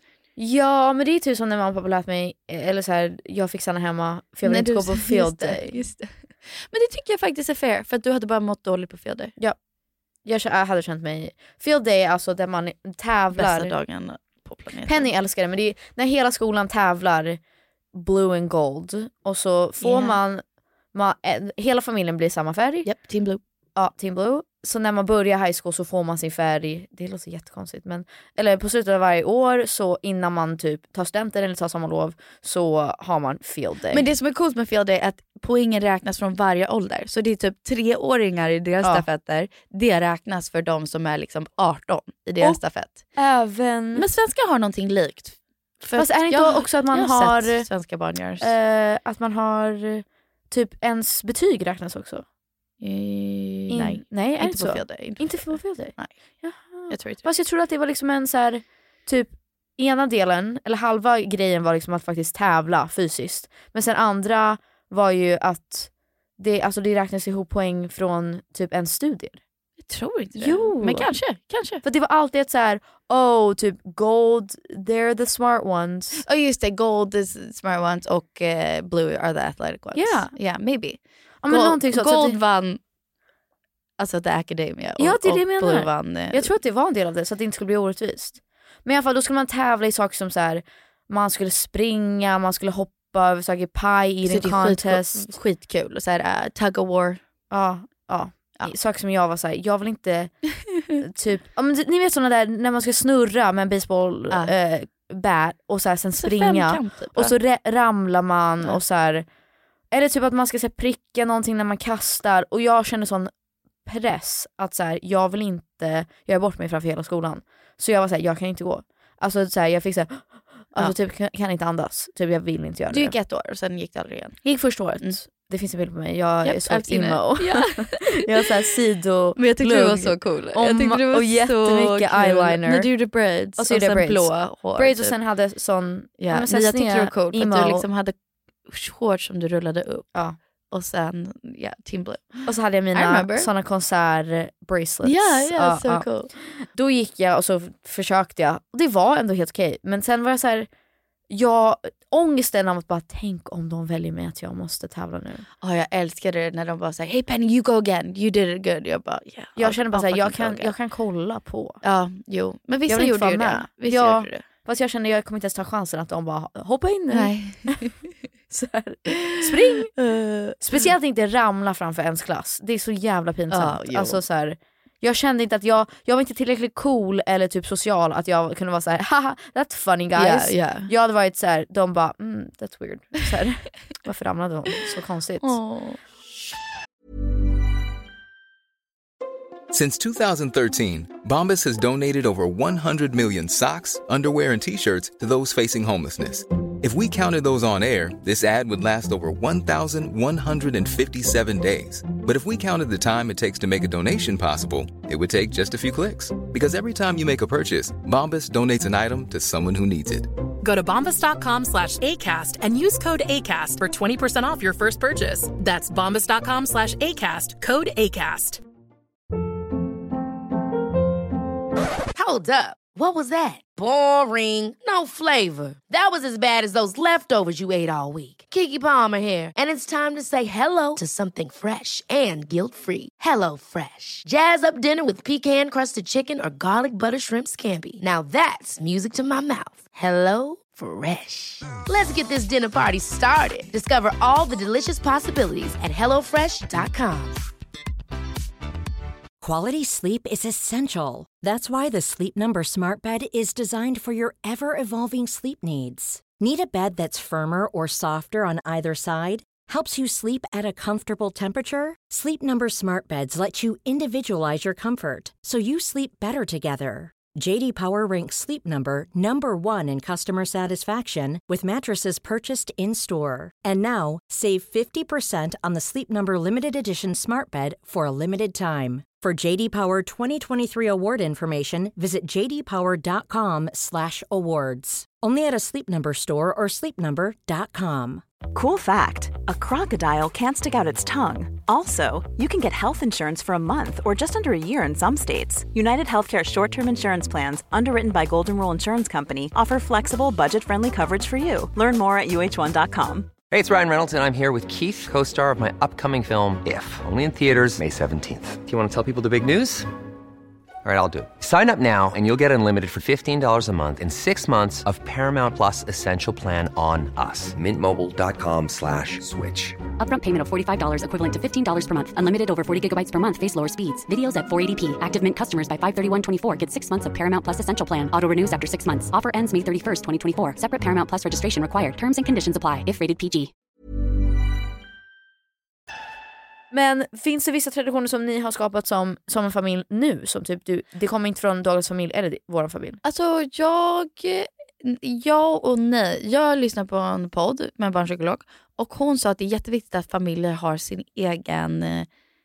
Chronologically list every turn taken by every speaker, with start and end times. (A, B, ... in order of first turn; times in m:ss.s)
0:00.4-0:05.8 A
0:04.4-0:09.3 B
0:10.2-0:13.8 A
0:13.3-0:15.1 B
0:14.8-0:17.4 A
0:17.9-0:22.9 A
0:19.8-0:20.2 B
0:22.8-0:23.4 B
0:23.8-0:34.1 A
0:33.9-0:43.0 B
0:43.2-0:44.1 A
0:43.9-0:48.5 B
0:45.9-0:47.7 A
0:48.4-0:52.2 A
0:52.8-0:56.2 B
0:53.7-1:09.4 A
0:56.9-0:57.2 B
1:09.8-1:11.8 B
1:10.4-1:11.1 A
1:11.8-1:16.2 A
1:16.2-1:22.8 B
1:19.9-1:20.3 A
1:21.4-1:22.4 A
1:24.0-1:26.5 B
1:25.0-1:35.4 A
1:34.2-1:37.2 B
1:37.5-1:40.3 A
1:41.0-1:49.2 A
1:46.2-1:47.4 B
1:49.9-1:53.3 A
1:53.8-2:03.1 A
2:02.9-2:04.4 B
2:04.4-2:12.9 A
2:06.4-2:08.4 B
2:09.4-2:15.2 B
2:13.6-2:17.8 A
2:16.2-2:18.2 B
2:18.7-2:20.1 B
2:20.7-2:23.5 B
2:22.4-2:30.7 A
2:25.0-2:26.3 B
2:31.3-2:35.4 A
2:35.6-2:40.7 B
2:39.6-2:41.8 A
2:41.8-2:44.4 B
2:42.9-2:47.8 A
2:47.1-2:47.9 B
2:48.5-2:49.9 A
2:49.0-2:50.8 B
2:50.6-3:05.6 A
2:53.5-2:54.2 B
3:00.1-3:00.9 B
3:05.4-3:06.0 B
3:09.7-3:30.3 C
3:30.6-3:38.6 D
3:42.2-4:07.4 E
4:09.4-4:48.2 F
4:48.5-5:03.3 G
5:03.5-5:09.9 H
5:10.8-5:19.8 H
5:20.0-5:33.5 I
5:36.7-5:43.0 A
5:43.0-5:52.1 B